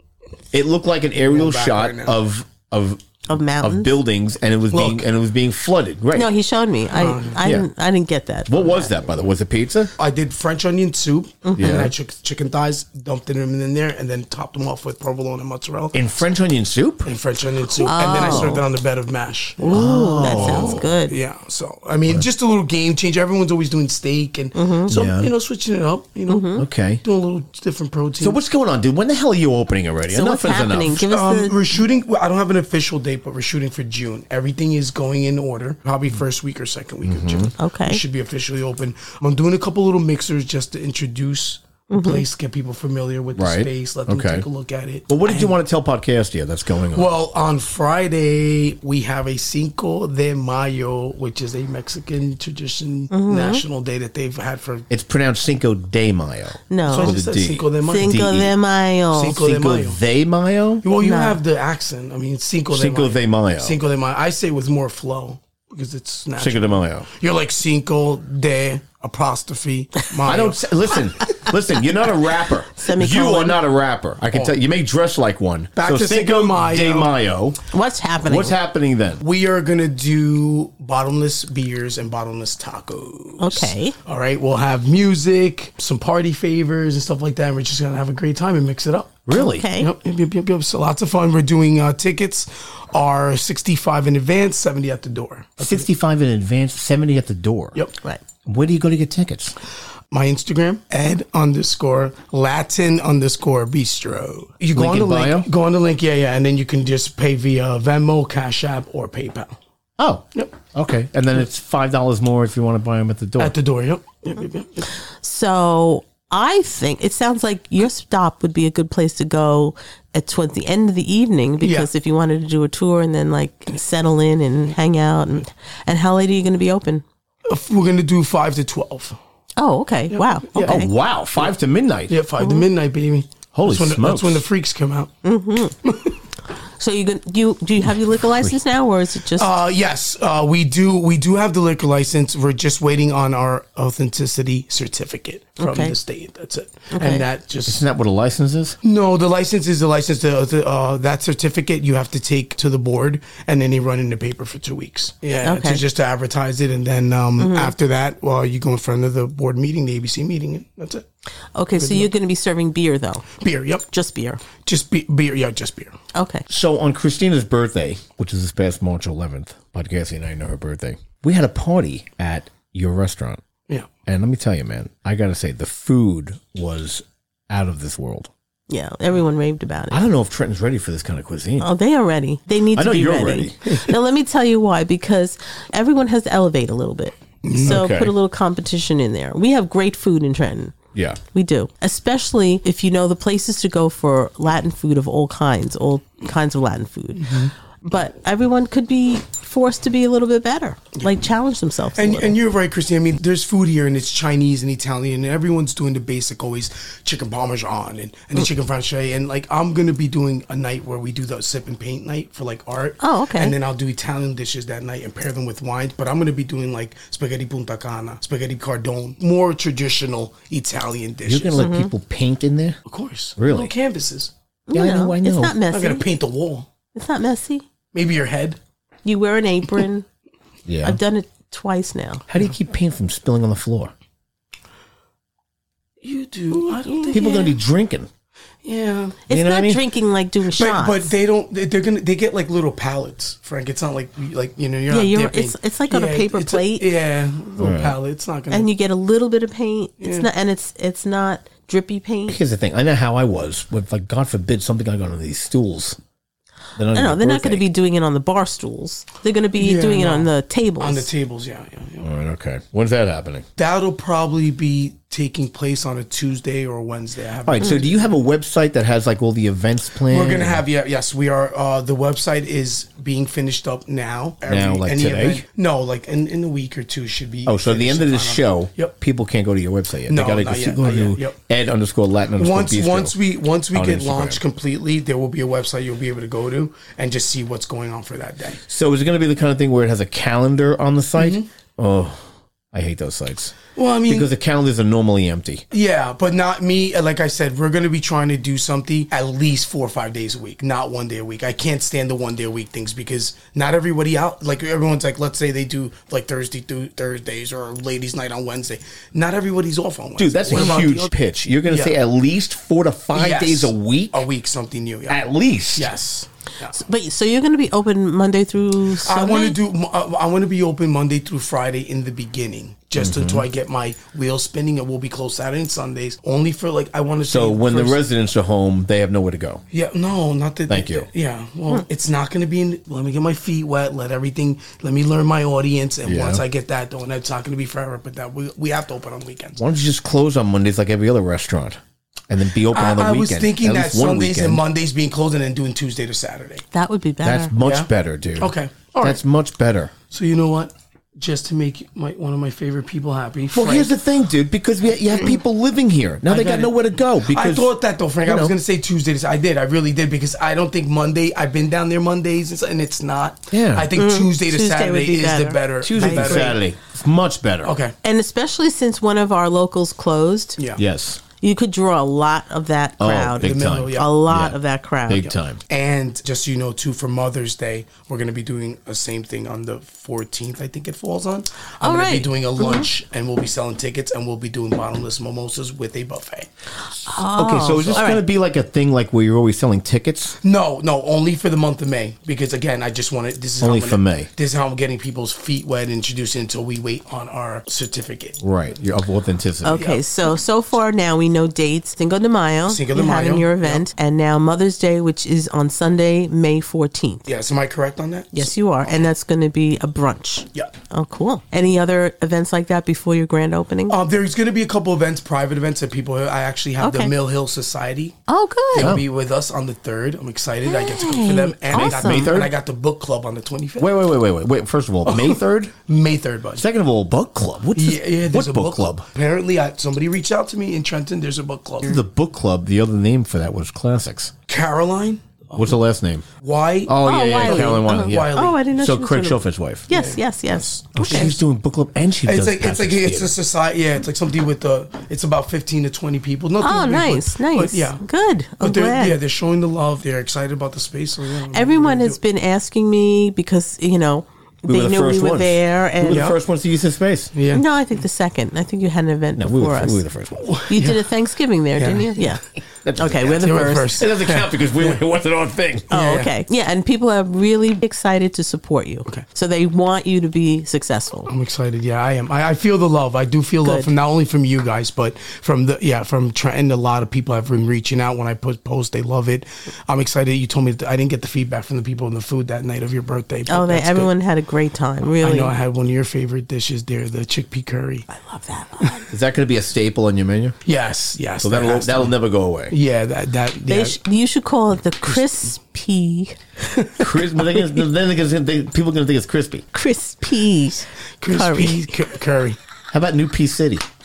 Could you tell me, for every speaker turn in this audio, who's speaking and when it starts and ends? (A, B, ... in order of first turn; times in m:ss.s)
0:00.5-0:06.3 A
0:01.2-0:02.2 B
0:03.3-0:04.0 C
0:04.7-0:05.1 B
0:06.2-0:08.9 C
0:06.9-0:07.4 B
0:07.4-0:07.7 A
0:08.5-0:09.9 A
0:10.0-0:16.1 B
0:11.5-0:11.9 C
0:11.6-0:11.9 A
0:15.9-0:17.1 A
0:17.0-0:28.4 B
0:17.8-0:18.7 C
0:19.6-0:21.2 C
0:19.7-0:20.9 A
0:24.5-0:25.0 C
0:24.9-0:25.3 A
0:26.3-0:26.6 C
0:26.6-0:27.0 A
0:28.2-0:31.0 A
0:30.1-0:31.7 C
0:30.8-0:45.6 B
0:37.0-0:37.5 A
0:37.6-0:38.0 C
0:41.9-0:42.2 C
0:43.4-0:44.5 A
0:45.1-0:47.1 A
0:46.9-0:54.9 B
0:53.1-0:53.6 C
0:54.9-0:58.6 A
0:56.7-0:57.2 C
0:56.9-0:58.2 B
0:57.8-0:59.4 C
0:59.1-1:00.0 B
0:59.3-1:00.8 A
1:00.8-1:10.6 B
1:01.0-1:01.4 C
1:02.7-1:03.8 A
1:06.4-1:07.1 A
1:10.2-1:17.6 A
1:12.8-1:13.6 C
1:14.3-1:14.6 B
1:15.8-1:17.1 B
1:17.7-1:18.6 C
1:18.2-1:19.2 A
1:19.2-1:29.2 B
1:23.4-1:24.0 C
1:29.3-1:29.7 A
1:29.3-1:29.9 C
1:29.7-1:35.9 B
1:35.6-1:37.8 A
1:38.4-1:39.6 A
1:40.1-1:49.6 B
1:44.7-1:45.5 A
1:50.0-1:53.6 A
1:53.4-1:54.9 B
1:55.0-2:07.0 C
2:01.6-2:01.9 B
2:07.5-2:09.2 B
2:09.6-2:10.9 C
2:10.1-2:10.7 B
2:10.6-2:12.2 A
2:12.1-2:15.1 B
2:12.4-2:12.7 C
2:13.5-2:14.4 A
2:15.2-2:15.8 C
2:15.8-2:16.1 B
2:16.8-2:19.5 C
2:18.2-2:18.6 A
2:19.4-2:27.8 B
2:25.6-2:25.9 C
2:26.9-2:27.2 C
2:27.7-2:28.8 A
2:28.8-2:41.0 B
2:35.4-2:35.8 C
2:37.4-2:37.7 C
2:41.6-2:43.3 C
2:41.8-2:42.1 B
2:43.3-2:43.9 B
2:43.9-2:44.4 C
2:44.6-2:46.0 B
2:46.1-2:46.5 C
2:46.5-2:53.4 A
2:54.1-2:58.3 A
2:58.7-3:00.0 C
2:59.9-3:01.7 A
3:01.6-3:10.8 C
3:02.7-3:03.8 A
3:07.4-3:07.8 B
3:07.6-3:08.1 A
3:10.9-3:11.2 A
3:11.3-3:22.4 C
3:17.2-3:17.5 B
3:22.0-3:41.7 B
3:33.0-3:33.6 C
3:41.2-3:42.8 A
3:41.6-3:41.9 C
3:42.9-3:44.3 B
3:43.4-3:43.7 A
3:44.7-3:46.0 C
3:44.7-3:45.6 A
3:45.7-3:46.7 B
3:47.0-3:47.6 C
3:47.9-3:48.6 B
3:49.0-3:50.1 C
3:50.7-3:51.0 A
3:50.8-3:52.2 C
3:52.3-3:53.9 A
3:56.0-3:57.5 B
3:56.6-3:57.5 C
3:57.1-3:58.1 A
3:58.6-3:59.2 B
3:59.3-4:01.1 C
3:59.3-3:59.8 A
4:00.5-4:08.7 B
4:04.9-4:06.9 C
4:07.6-4:08.0 A
4:08.5-4:12.4 C
4:10.0-4:10.3 B
4:12.3-4:16.0 A
4:16.8-4:17.6 A
4:16.9-4:21.1 C
4:19.6-4:22.1 B
4:22.0-4:23.4 A
4:23.6-4:28.1 B
4:27.4-4:30.6 A
4:30.1-4:38.9 B
4:34.5-4:35.4 A
4:37.4-4:43.2 A
4:40.1-4:41.4 B
4:42.4-4:48.6 B
4:43.7-4:44.4 A
4:48.7-4:55.6 A
4:51.2-4:51.5 B
4:53.8-4:54.3 B
4:55.7-5:11.1 B
5:10.2-5:14.3 A
5:11.7-5:12.0 B
5:13.1-5:15.2 B
5:15.1-5:15.9 A
5:15.7-5:16.7 B
5:16.7-5:19.6 C
5:19.0-5:28.0 B
5:23.0-5:23.5 A
5:27.3-5:29.6 A
5:29.7-5:39.6 B
5:30.7-5:31.1 A
5:36.0-5:36.4 A
5:39.6-5:44.6 A
5:42.7-5:46.6 B
5:46.7-5:47.5 C
5:47.2-5:49.9 A
5:47.6-5:49.2 B
5:50.1-5:53.9 B
5:53.5-5:58.6 A
5:56.3-6:06.6 B
6:03.5-6:03.9 A
6:04.0-6:06.5 C
6:05.8-6:07.8 A
6:07.6-6:07.9 B
6:08.0-6:10.6 C
6:10.6-6:10.8 B
6:10.8-6:11.2 A
6:11.4-6:15.3 C
6:13.0-6:15.6 A
6:13.4-6:14.1 B
6:15.7-6:26.5 B
6:21.8-6:22.9 C
6:27.0-6:28.2 C
6:27.4-6:30.4 A
6:27.7-6:28.2 B
6:30.4-6:38.4 B
6:33.6-6:34.3 A
6:38.4-6:39.9 A
6:39.6-6:47.3 C
6:39.7-6:40.0 B
6:42.7-6:43.8 B
6:47.3-6:48.5 B
6:48.3-6:54.0 C
6:53.9-6:58.2 B
6:56.8-6:57.1 C
6:58.3-6:59.0 C
6:58.7-7:03.9 B
6:58.8-6:59.1 A
7:00.6-7:02.4 C
7:01.7-7:02.5 A
7:03.8-7:05.7 A
7:05.1-7:06.6 B
7:06.6-7:09.1 A
7:07.8-7:12.0 B
7:11.8-7:14.3 A
7:14.5-7:15.8 B
7:15.6-7:16.3 A
7:16.4-7:18.7 B
7:16.9-7:19.9 A
7:17.0-7:21.3 C
7:19.9-7:21.4 B
7:21.0-7:23.3 A
7:22.2-7:28.0 B
7:26.6-7:29.2 C
7:28.6-7:32.2 B
7:31.5-7:36.3 C
7:34.6-7:37.3 A
7:36.1-7:36.4 B
7:37.3-7:37.6 B
7:37.5-7:40.0 C
7:39.4-7:40.6 A
7:40.4-7:41.1 B
7:40.7-7:42.4 C
7:41.8-7:42.3 B
7:42.8-7:45.9 A
7:43.0-7:44.0 C
7:43.4-7:45.0 B
7:45.9-7:46.3 B
7:45.9-7:51.3 C
7:51.3-8:04.1 B
7:53.6-7:53.9 C
8:03.5-8:05.5 C
8:05.2-8:08.1 B
8:08.1-8:09.1 C
8:09.1-8:10.6 A
8:10.6-8:12.2 B
8:11.4-8:12.8 A
8:12.7-8:14.0 B
8:13.7-8:16.4 C
8:17.0-8:19.7 A
8:19.7-8:21.9 C
8:21.2-8:22.6 B
8:22.9-8:23.8 A